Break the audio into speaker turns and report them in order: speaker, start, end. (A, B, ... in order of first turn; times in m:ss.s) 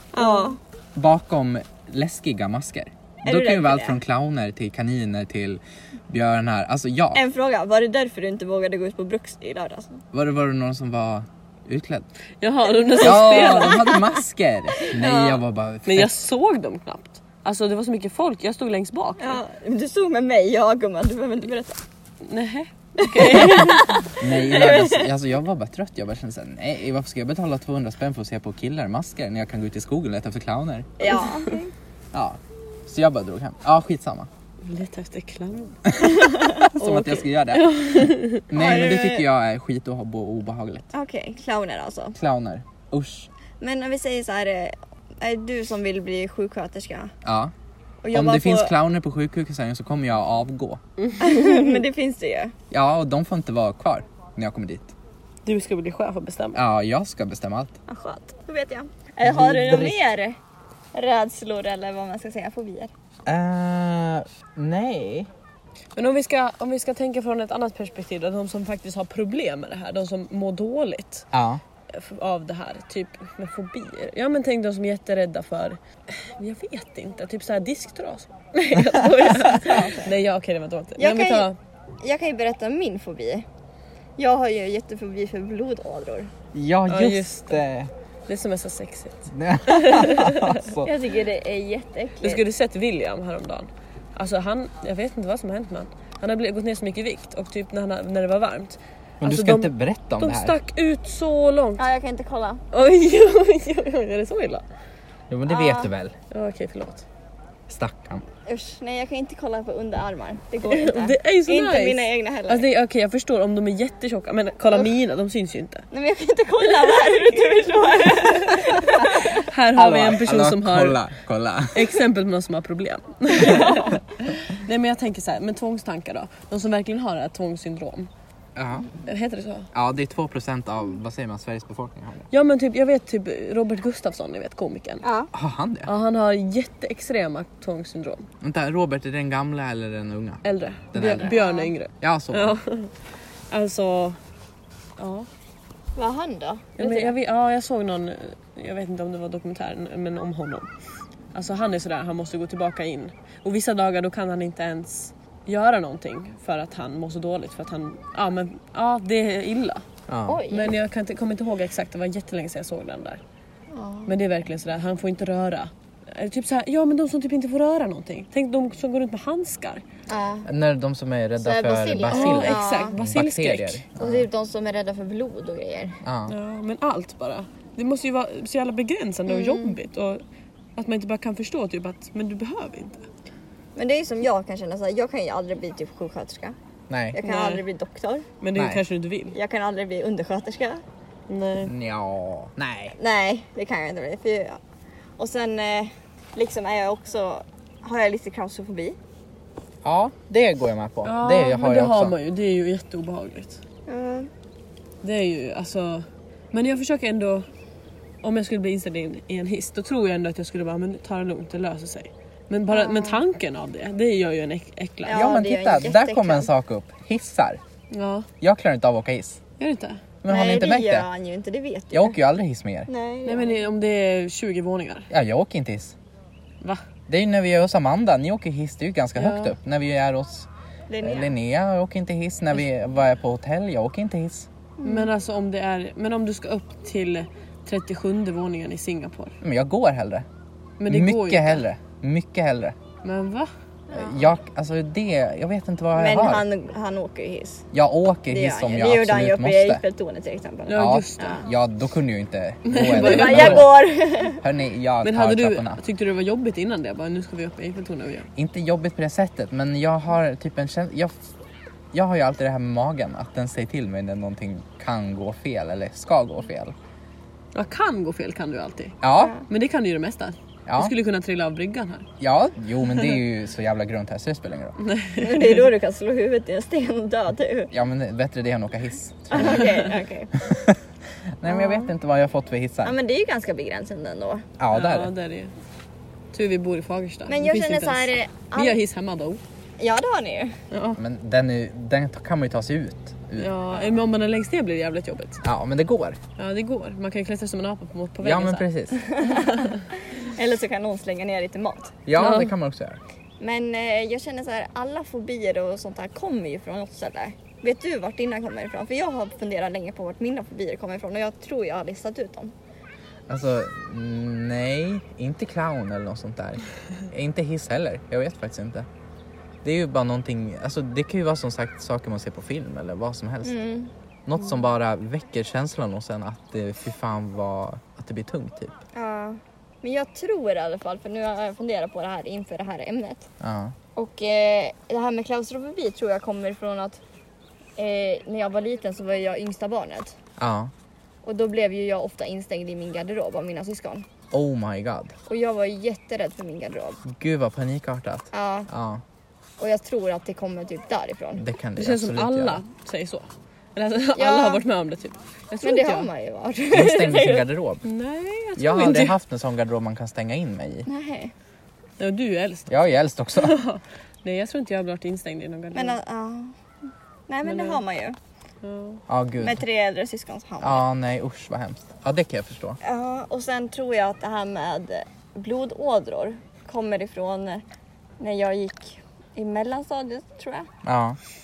0:00.1-0:00.6 A
0:00.2-0:00.5 B
0:01.0-0:07.2 C
0:03.2-0:04.0 A
0:07.1-0:10.0 A
0:10.1-0:12.1 C
0:12.4-0:14.0 B
0:12.9-0:14.0 A
0:13.0-0:16.1 C
0:14.8-0:15.4 A
0:15.8-0:19.4 B
0:19.2-0:21.8 A
0:22.2-0:24.1 B
0:23.0-0:25.1 A
0:24.2-0:31.0 C
0:31.0-0:31.7 A
0:32.1-0:34.3 C
0:34.6-0:38.5 B
0:36.0-0:40.9 C
0:38.5-0:39.3 A
0:40.9-0:42.2 A
0:42.2-0:43.3 C
0:43.6-0:47.1 A
0:47.2-0:47.5 C
0:48.0-0:48.7 A
0:48.1-0:50.8 C
0:51.1-0:51.5 B
0:51.2-0:52.5 A
0:52.7-0:54.9 C
0:55.5-0:56.6 B
0:56.5-0:57.8 C
0:57.9-1:00.4 A
0:59.2-1:00.0 C
1:00.9-1:02.9 A
1:03.2-1:05.3 C
1:06.0-1:11.3 B
1:11.3-1:11.6 C
1:11.9-1:21.6 B
1:18.7-1:19.8 C
1:19.4-1:20.1 A
1:21.0-1:23.4 A
1:24.2-1:26.3 A
1:26.5-1:27.9 C
1:26.9-1:27.6 B
1:28.3-1:30.7 B
1:29.3-1:30.9 C
1:30.8-1:32.4 A
1:32.2-1:41.8 B
1:39.2-1:40.6 C
1:41.8-1:42.6 A
1:42.7-1:44.6 B
1:45.3-1:46.2 C
1:45.5-1:45.9 A
1:46.3-1:47.0 B
1:47.7-1:48.2 C
1:48.5-1:52.7 A
1:50.6-1:55.9 B
1:55.9-1:59.4 A
1:56.8-2:01.0 B
1:59.7-2:02.0 C
2:01.7-2:08.1 B
2:08.6-2:08.9 C
2:09.0-2:09.7 B
2:09.7-2:12.3 C
2:12.3-2:15.0 B
2:15.0-2:15.3 A
2:15.3-2:15.9 C
2:15.9-2:18.3 B
2:18.4-2:21.4 C
2:20.4-2:22.9 B
2:21.2-2:21.7 A
2:22.0-2:22.6 C
2:23.5-2:24.2 B
2:25.0-2:25.3 B
2:26.0-2:27.2 A
2:26.8-2:30.7 B
2:31.3-2:39.8 B
2:40.1-2:40.4 C
2:40.3-2:40.7 A
2:40.5-2:43.2 B
2:43.7-2:44.1 A
2:44.1-2:49.8 B
2:50.1-2:50.5 A
2:50.4-2:54.3 C
2:51.4-2:53.0 A
2:52.1-2:53.8 B
2:54.0-2:56.0 A
2:56.0-2:56.3 C
2:56.3-3:00.2 B
2:59.3-2:59.8 A
3:00.8-3:03.1 B
3:03.8-3:06.6 A
3:06.9-3:07.2 C
3:07.1-3:08.3 A
3:07.2-3:07.6 B
3:08.4-3:09.4 B
3:08.6-3:08.8 C
3:09.3-3:10.8 A
3:11.3-3:11.7 B
3:11.6-3:13.0 C
3:13.0-3:14.6 A
3:15.2-3:19.0 A
3:19.8-3:22.2 C
3:21.0-3:23.6 B
3:23.9-3:24.3 A
3:25.0-3:27.5 B
3:28.2-3:35.2 B
3:32.7-3:33.2 A
3:35.1-3:36.5 A
3:35.1-3:37.6 C
3:37.9-3:38.3 B
3:38.4-3:39.4 C
3:39.6-3:40.0 B
3:40.2-3:41.1 C
3:40.3-3:42.2 A
3:41.9-3:42.9 C
3:42.9-3:43.6 A
3:43.2-3:45.1 B
3:45.1-3:46.0 C
3:47.1-3:50.5 C
3:49.2-3:49.6 B
3:50.9-3:51.3 A
3:51.0-3:54.5 C
3:54.8-3:55.1 A
3:54.8-3:59.4 B
3:59.4-4:00.3 C
4:00.8-4:01.6 B
4:00.9-4:02.8 C
4:03.0-4:03.5 B
4:03.9-4:06.5 C
4:06.0-4:07.7 A
4:07.7-4:09.8 C
4:08.2-4:11.4 A
4:10.7-4:11.4 B
4:10.7-4:13.9 C
4:12.6-4:13.7 B
4:12.9-4:14.4 A
4:14.4-4:15.8 C
4:15.0-4:18.3 B
4:18.4-4:21.2 C
4:21.9-4:26.8 C
4:27.5-4:32.1 B
4:29.0-4:29.4 C
4:29.2-4:29.5 A
4:30.7-4:31.0 C
4:32.2-4:34.8 C
4:34.8-4:35.6 B
4:35.2-4:37.7 A
4:37.7-4:40.8 C
4:39.3-4:40.4 A
4:41.4-4:42.9 C
4:41.5-4:41.9 A
4:42.8-4:44.5 A
4:44.6-4:45.1 C
4:44.7-4:45.5 B
4:46.3-4:49.4 B
4:47.3-4:48.8 A
4:49.8-4:50.6 A
4:50.7-4:51.0 B
4:51.0-4:53.5 C
4:53.4-4:55.4 B
4:55.4-4:56.2 C
4:56.4-4:58.7 B
4:58.2-4:59.0 C
4:59.0-5:02.0 A
4:59.3-4:59.8 B
5:02.1-5:03.0 C
5:02.2-5:02.5 B
5:03.4-5:12.5 A
5:13.3-5:18.9 C
5:19.6-5:23.6 C
5:23.4-5:23.9 A
5:24.3-5:28.7 C
5:29.0-5:33.3 A
5:33.4-5:33.8 C
5:34.0-5:37.0 A
5:37.8-5:40.2 A
5:40.4-5:40.7 C
5:41.2-5:44.1 A
5:44.3-5:45.2 C
5:45.3-5:47.0 A
5:47.1-5:49.0 C
5:48.3-5:48.7 A
5:49.6-5:51.4 A
5:51.4-5:52.6 C
5:51.8-5:56.1 B
5:54.2-5:54.6 A
5:55.6-5:57.5 A
5:56.7-5:57.8 C
5:57.8-5:59.2 B
5:58.6-6:00.9 C
6:00.9-6:01.3 A
6:02.0-6:02.8 B
6:02.7-6:03.6 C
6:03.4-6:06.0 B
6:05.7-6:06.5 A
6:07.3-6:08.2 A
6:07.4-6:07.8 B
6:08.6-6:09.0 B
6:09.1-6:09.6 C
6:09.4-6:10.9 A
6:10.6-6:12.8 C
6:12.8-6:17.6 A
6:18.2-6:20.7 A
6:20.8-6:21.2 C